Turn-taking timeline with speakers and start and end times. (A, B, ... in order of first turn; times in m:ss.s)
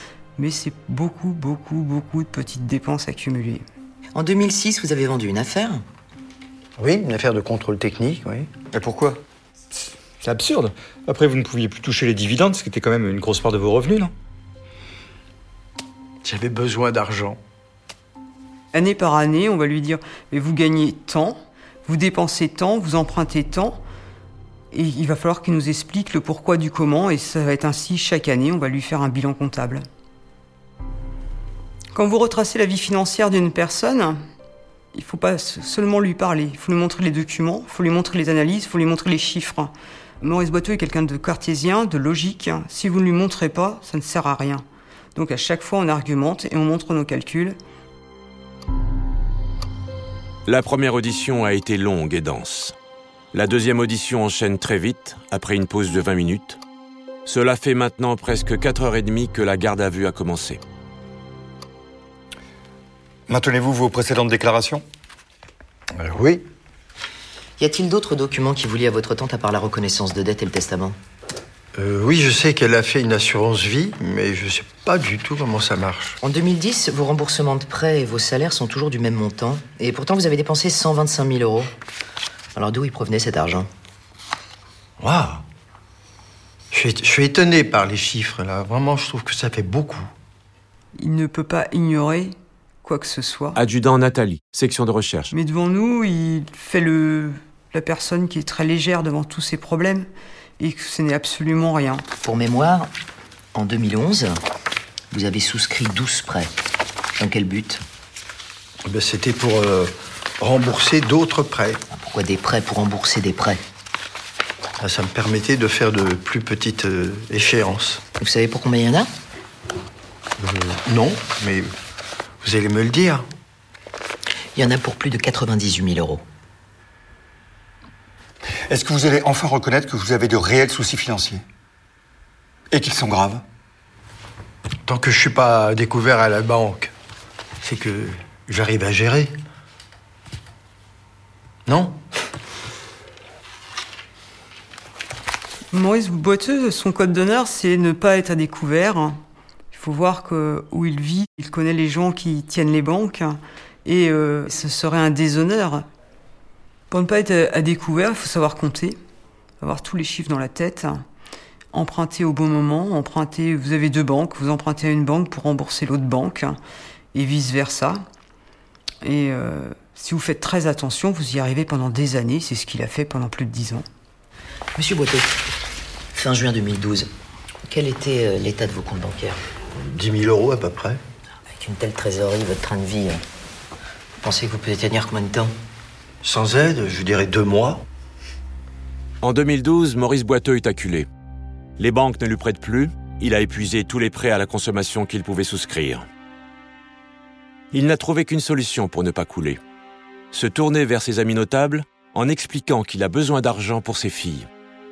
0:00.4-0:03.6 A
0:04.2-0:05.8 B
0:06.8-0:08.5 C
0:08.7-0:09.2 D
0:10.2-0:14.1 D
0:16.2-0:17.4 C
0:18.7-0:23.8 A
0:24.7-0:29.8 A
0:31.9-0:34.2 A
0:34.9-0:47.6 A
0:50.5-0:52.8 E
0:53.3-0:56.6 E
0:57.2-1:00.6 E
1:03.3-1:04.8 D
1:06.0-1:06.4 C
1:07.6-1:11.0 B
1:11.8-1:16.2 C
1:16.2-1:21.7 B
1:22.6-1:23.7 B
1:25.0-1:25.4 C
1:26.7-1:30.1 C
1:31.0-1:33.6 A
1:33.6-1:35.3 E
1:35.3-1:40.1 A
1:40.6-1:42.0 A
1:42.2-1:42.9 B
1:43.5-1:44.4 B
1:45.1-1:46.5 B
1:47.2-1:47.8 B
1:48.9-1:51.8 C
1:51.9-1:53.6 B
1:54.8-1:58.0 C
1:58.2-1:59.1 B
2:00.4-2:01.7 C
2:02.4-2:03.2 C
2:04.6-2:06.2 B
2:08.7-2:11.4 D
2:12.7-2:13.4 D
2:14.9-2:16.9 C
2:17.6-2:19.3 C
2:21.7-2:22.0 C
2:25.7-2:29.2 A
2:29.7-2:35.9 A
2:36.9-2:39.0 A
2:39.6-2:41.0 A
2:41.7-2:46.6 A
2:47.1-2:48.0 A
2:49.0-2:53.8 A
2:54.8-2:55.4 B
2:56.1-2:57.1 B
2:57.7-2:59.4 B
2:59.8-3:01.0 C
3:01.5-3:03.2 B
3:04.2-3:05.5 B
3:06.2-3:07.8 C
3:09.2-3:11.1 E
3:11.8-3:16.0 E
3:17.7-3:19.6 E
3:20.3-3:24.5 E